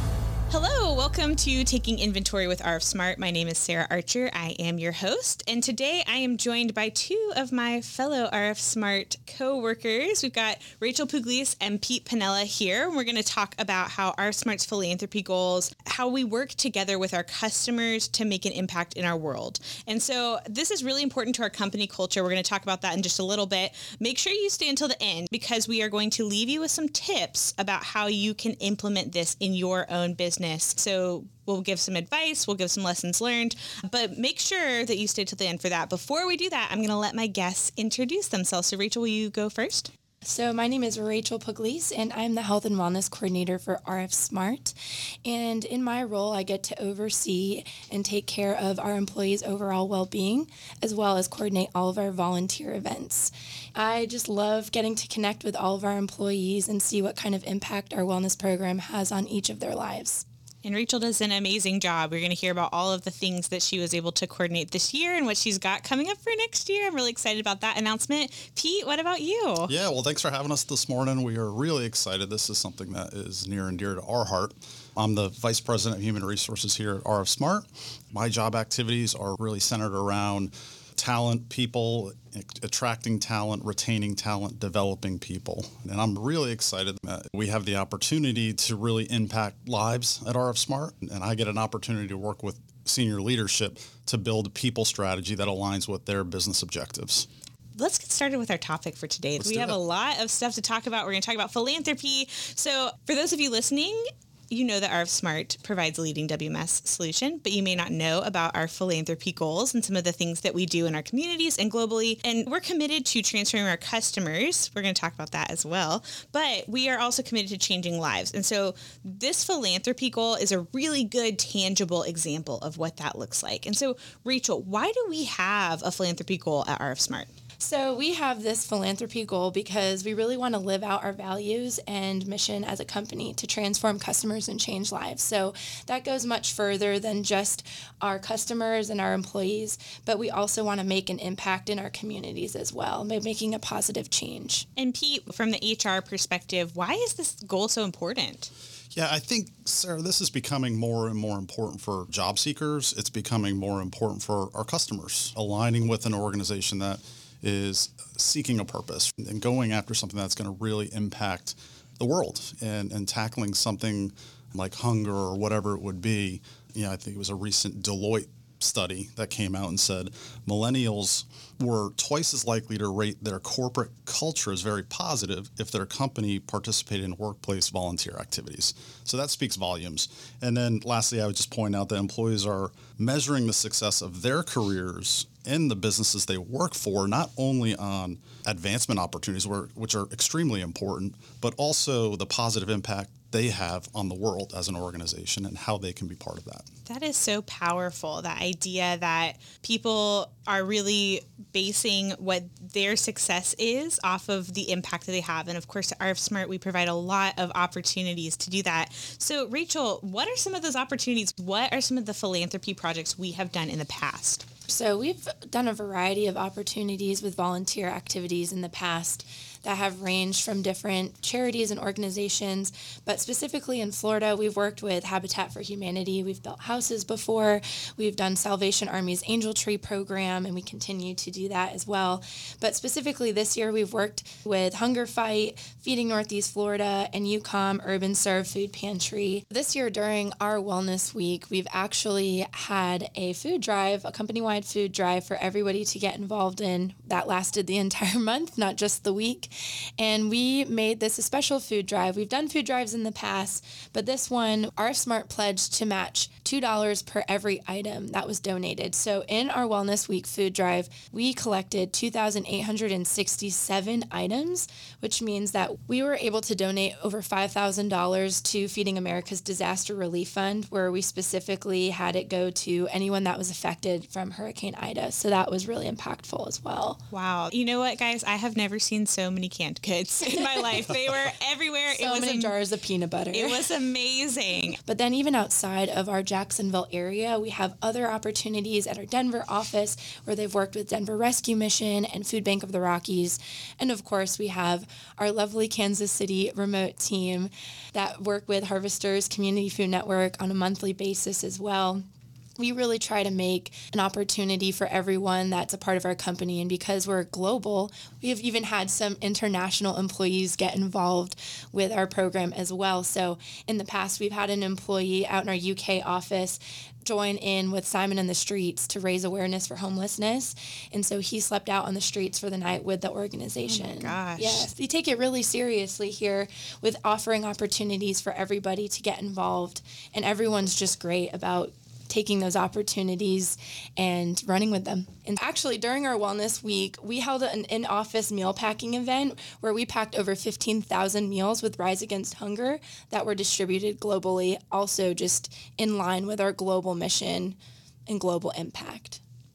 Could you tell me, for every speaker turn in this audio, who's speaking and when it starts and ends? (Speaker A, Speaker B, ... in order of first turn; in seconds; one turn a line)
Speaker A: 0.5-39.9
Speaker B: 40.2-60.2
Speaker A: 60.6-69.7
Speaker C: 69.7-97.3
Speaker A: 97.8-127.3
Speaker C: 99.4-99.8
Speaker B: 127.6-144.7
Speaker A: 144.8-148.5
Speaker C: 148.9-196.7
Speaker A: 196.9-214.5
Speaker B: 214.7-277.0
Speaker A: 277.1-282.5
Speaker B: 281.9-283.7
Speaker A: 283.3-284.8
Speaker B: 284.9-302.0
Speaker B: 302.6-349.2
Speaker A: 323.7-324.7